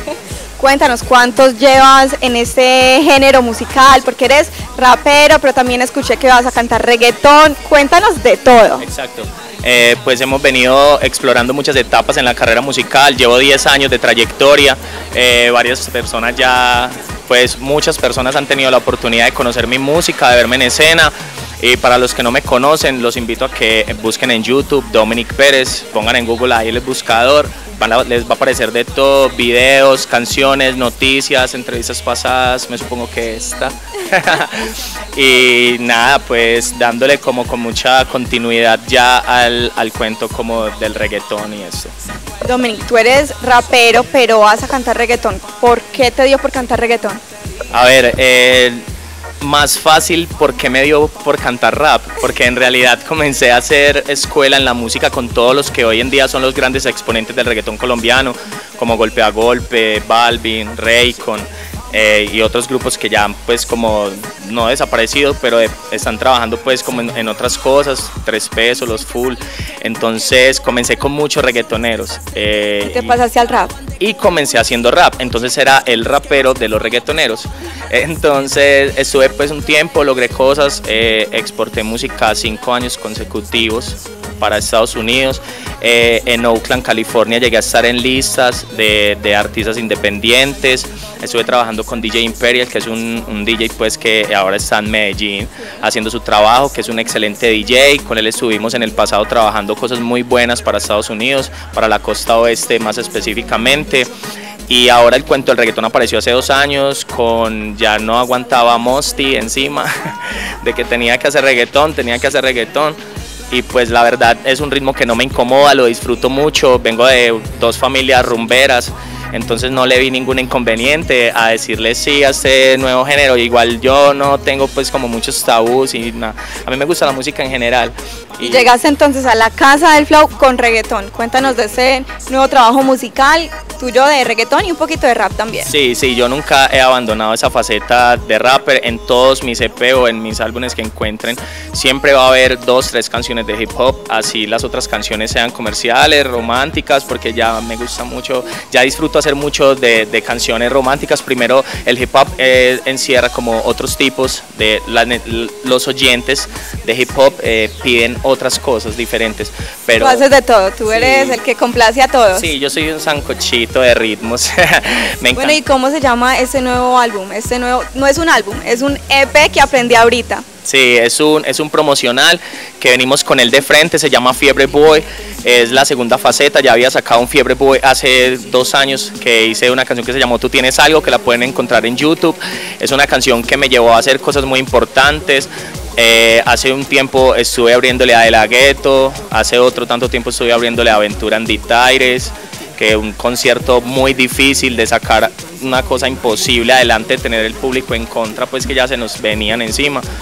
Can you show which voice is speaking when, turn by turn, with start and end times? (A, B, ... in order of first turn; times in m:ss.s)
0:00.6-0:08.8 A
0:08.8-0:41.9 B
0:42.4-0:47.2 A
0:47.7-0:48.8 B
0:49.4-1:13.2 B
1:12.8-1:13.7 A
1:14.0-1:44.1 B
1:44.7-1:53.0 B
1:53.5-2:08.7 B
2:08.4-2:15.7 A
2:15.7-2:40.2 B
2:40.0-2:42.4 A
2:40.9-2:41.4 B
2:42.3-2:45.6 B
2:45.4-2:50.4 A
2:50.6-3:20.0 B